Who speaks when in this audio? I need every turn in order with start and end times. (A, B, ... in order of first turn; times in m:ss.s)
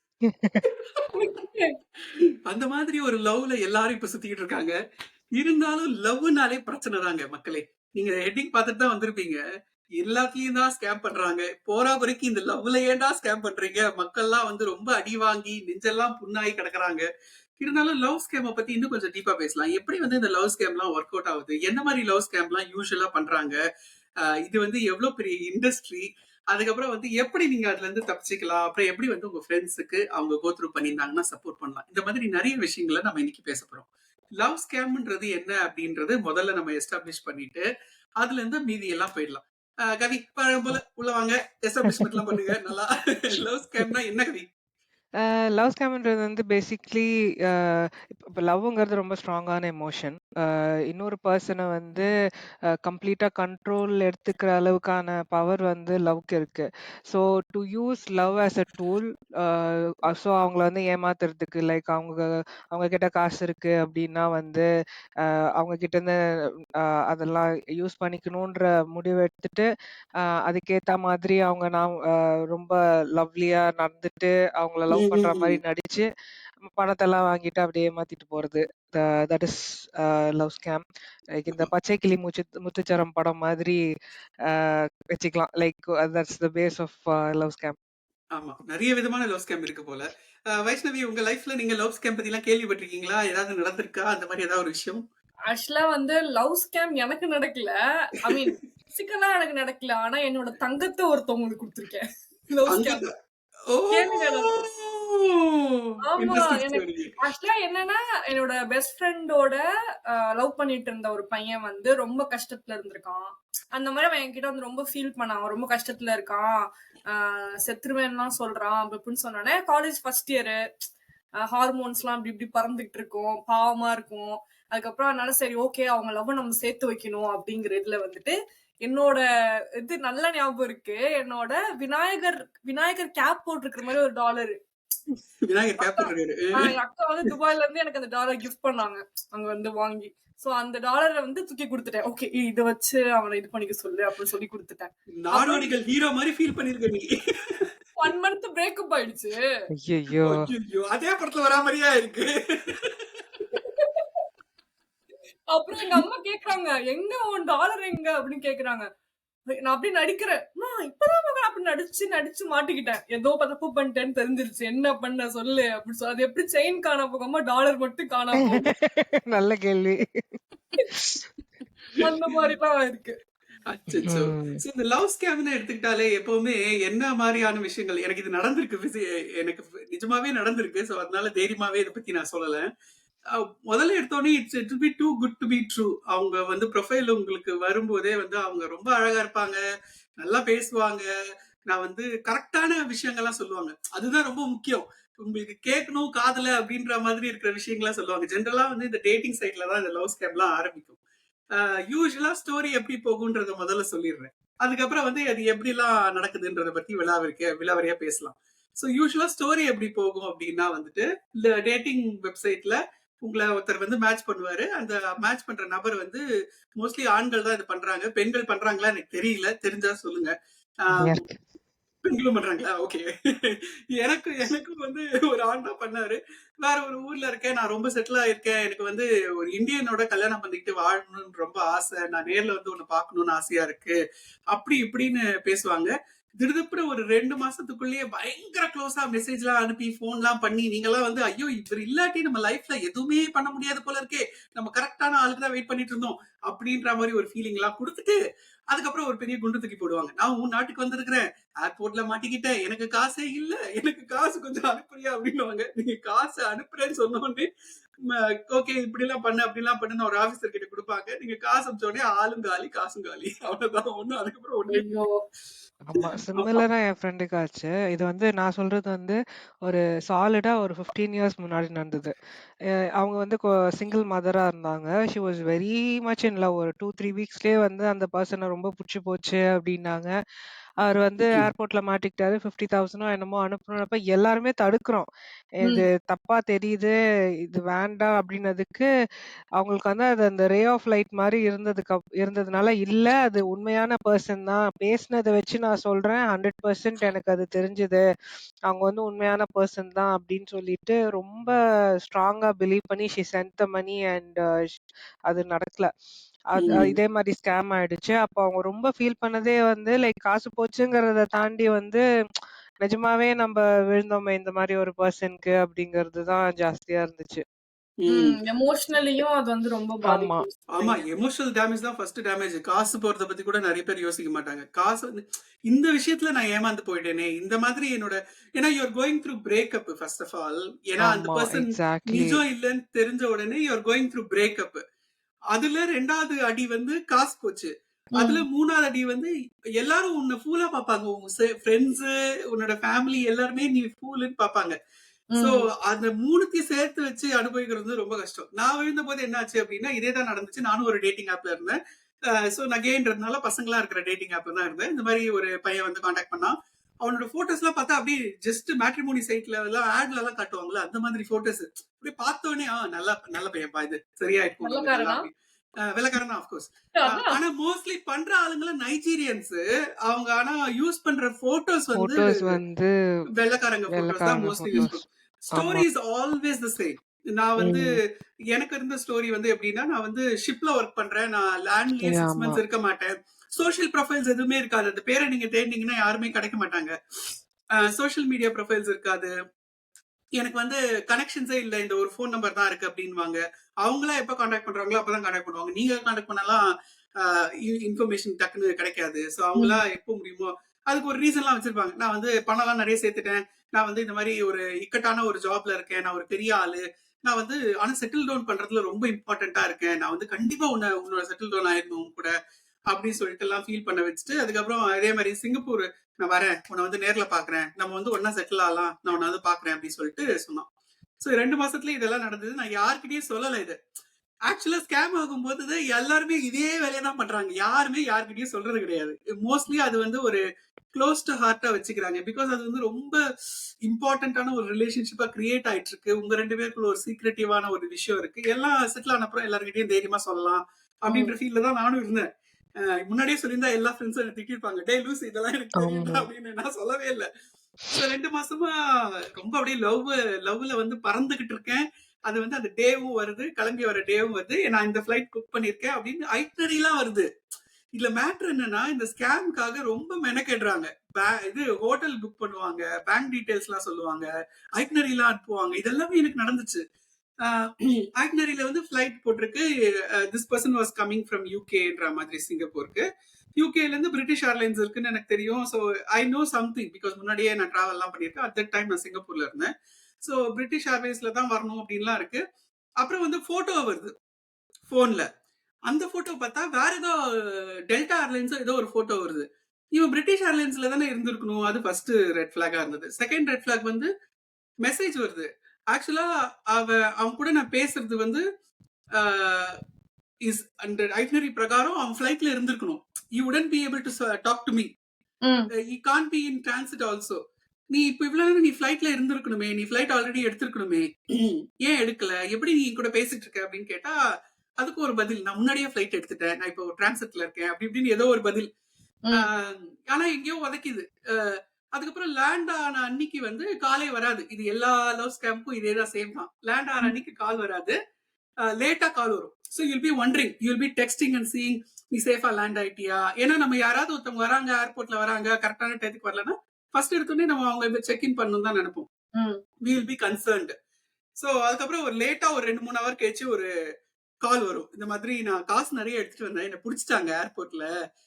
0:00.2-0:00.6 A
0:01.0-0:01.7 B
0:02.5-0:04.7 C
0:05.3-0:09.4 C
0:10.0-0:17.0 C
0:17.6-0:23.6 C
0:24.2-0:33.8 C
0:34.4-0:37.6 C
0:38.2-0:44.4 C
0:41.9-0:42.5 A
0:45.2-0:52.1 A
0:52.8-1:04.6 A
1:05.2-1:06.2 A
1:06.8-1:09.7 A
1:10.2-1:16.1 A
1:14.9-1:15.6 C
1:16.6-1:23.8 A
1:24.4-1:27.8 A
1:28.3-1:35.0 C
1:35.5-1:43.0 B
1:42.7-1:43.1 C
1:43.7-1:47.2 C
1:43.9-1:44.6 B
1:46.1-1:56.5 B
1:57.1-2:00.6 B
2:01.4-2:09.2 B
2:09.8-2:14.6 B
2:15.4-2:16.7 C
2:15.8-2:25.7 B
2:25.2-2:27.1 C
2:28.0-2:29.4 B
2:29.8-2:30.4 A
2:30.2-2:32.9 C
2:33.5-2:34.2 B
2:35.5-2:38.8 B
2:39.5-2:48.7 B
2:48.4-2:51.3 A
2:52.0-2:53.1 B
2:53.7-3:02.7 C
2:54.0-2:54.6 A
3:03.3-3:09.6 C
3:10.2-3:11.0 C
3:11.7-3:21.0 C
3:21.5-3:36.2 C
3:36.8-3:41.2 C
3:41.0-3:41.4 A
3:42.0-3:54.0 C
3:54.5-4:08.2 C
4:08.7-4:17.5 C
4:18.0-4:24.9 C
4:24.7-4:25.2 B
4:25.8-4:32.1 A
4:26.0-4:26.6 C
4:32.7-4:40.1 A
4:40.8-4:48.9 A
4:49.6-4:58.0 A
4:58.7-5:01.5 A
5:02.0-5:05.9 A
5:06.5-5:12.0 A
5:06.6-5:06.9 C
5:12.8-5:17.4 A
5:18.0-5:18.4 C
5:18.1-5:21.0 B
5:20.1-5:20.4 A
5:20.7-5:34.8 C
5:31.0-5:32.4 A
5:35.5-5:44.7 C
5:38.2-5:38.4 B
5:45.3-5:45.6 B
5:45.4-5:51.8 C
5:52.4-6:05.3 C
6:04.6-6:05.2 B
6:05.8-6:12.6 C
6:06.9-6:07.4 B
6:12.0-6:12.9 A
6:13.3-6:26.9 C
6:13.9-6:15.0 A
6:15.5-6:15.8 A
6:17.6-6:18.0 A
6:22.0-6:22.6 A
6:27.8-6:29.3 C
6:30.4-6:36.6 C
6:37.2-6:52.3 C
6:52.9-7:00.7 C
7:01.2-7:03.8 C
7:04.5-7:10.4 C
7:10.9-7:13.2 C
7:13.8-7:22.3 C
7:21.1-7:21.3 B
7:22.8-7:27.2 C
7:25.8-7:26.3 A
7:27.9-7:28.7 C
7:29.3-7:37.3 C
7:37.9-7:46.8 C
7:47.4-7:49.6 C
7:50.2-7:53.0 C
7:53.6-7:59.7 C
8:00.2-8:02.4 C
8:03.0-8:04.1 C
8:04.9-8:05.3 C
8:05.9-8:14.1 C
8:14.8-8:18.4 C
8:19.2-8:19.8 C
8:20.4-8:24.9 C
8:25.4-8:25.7 B
8:25.9-8:27.4 C
8:27.9-8:34.2 C
8:34.8-8:38.7 C
8:39.3-8:48.0 C
8:48.7-8:59.1 C
8:59.8-9:00.7 C
9:01.4-9:03.7 C
9:04.4-9:07.9 C